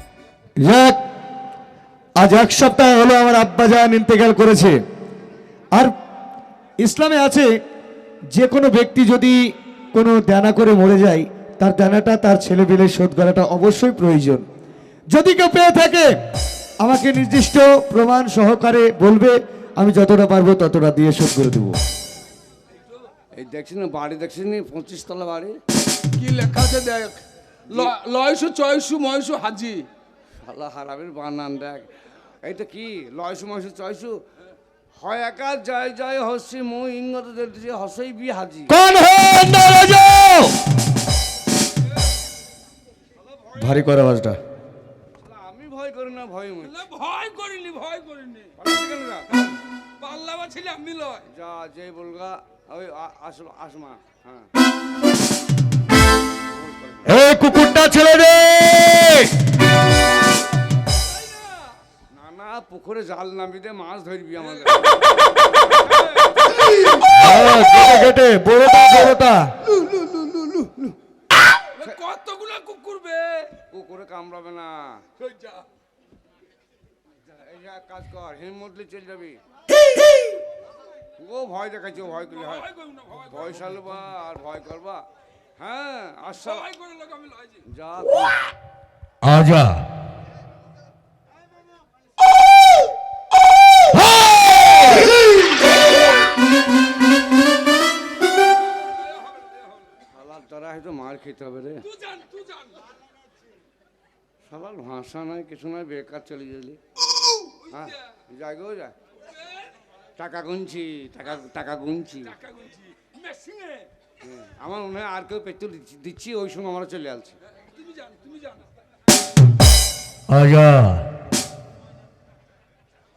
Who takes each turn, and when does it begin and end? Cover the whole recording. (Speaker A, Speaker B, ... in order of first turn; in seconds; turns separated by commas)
Speaker A: 0.6-1.0, Speaker A: 2.2-4.8, Speaker A: 6.8-7.5, Speaker A: 8.3-9.4, Speaker A: 9.9-14.5, Speaker A: 15.1-16.1, Speaker A: 16.8-21.8, Speaker B: 23.4-25.6, Speaker C: 26.2-29.9, Speaker B: 30.4-31.9, Speaker B: 32.4-34.2, Speaker B: 35.0-38.8, Speaker A: 38.7-40.6, Speaker B: 43.2-43.9, Speaker A: 43.6-44.4, Speaker B: 45.2-46.8, Speaker C: 46.6-48.5, Speaker B: 48.6-49.3, Speaker C: 49.3-51.2, Speaker B: 51.3-54.5, Speaker B: 56.5-57.2, Speaker A: 57.1-59.3, Speaker C: 60.4-61.7, Speaker B: 62.1-66.6, Speaker C: 64.6-65.0, Speaker A: 67.0-69.5, Speaker B: 69.9-70.9, Speaker C: 71.8-73.5, Speaker B: 73.7-75.0, Speaker C: 75.3-75.6, Speaker B: 77.2-79.4, Speaker B: 81.2-82.7, Speaker C: 82.3-84.0, Speaker B: 83.3-85.0, Speaker B: 85.6-86.7, Speaker C: 86.4-87.6, Speaker B: 87.7-88.3, Speaker A: 89.2-89.8, Speaker A: 94.2-94.8, Speaker C: 99.0-100.0, Speaker B: 100.1-101.8, Speaker C: 101.8-102.8, Speaker B: 104.5-106.8, Speaker C: 107.3-107.9, Speaker B: 107.7-108.9, Speaker C: 109.3-109.7, Speaker B: 110.2-112.3, Speaker C: 112.2-113.9, Speaker B: 114.2-117.4, Speaker C: 117.6-118.7, Speaker A: 120.3-121.1